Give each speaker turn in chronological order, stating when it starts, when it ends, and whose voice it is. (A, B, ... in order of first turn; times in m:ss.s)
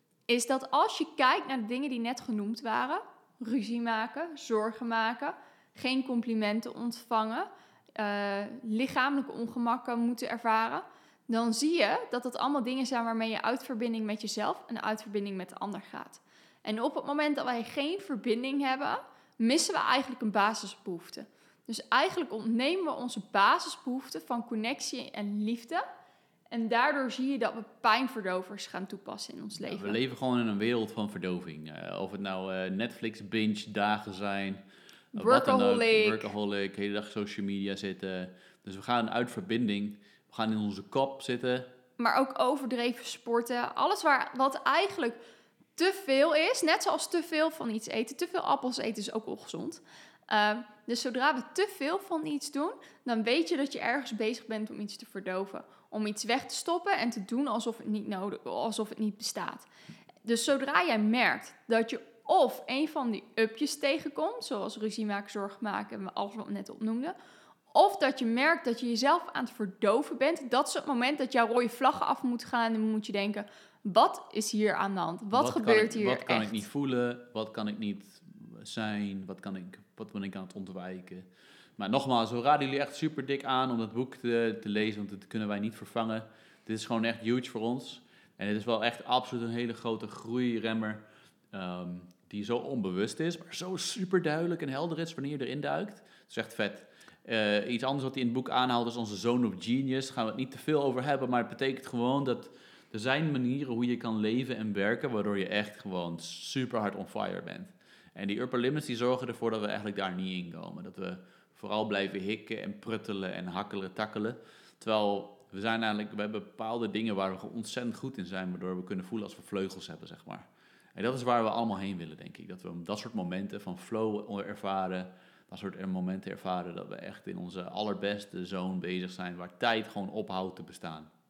0:00.3-0:25.8 A
0:26.5-0:30.0 A
0:29.6-0:34.6 B
0:35.1-0:36.3 A
0:35.1-0:41.7 B
0:42.0-0:45.2 A
0:45.8-0:59.7 A
1:00.2-1:07.2 A
1:07.7-1:16.6 A
1:15.3-1:21.3 B
1:21.8-2:11.1 B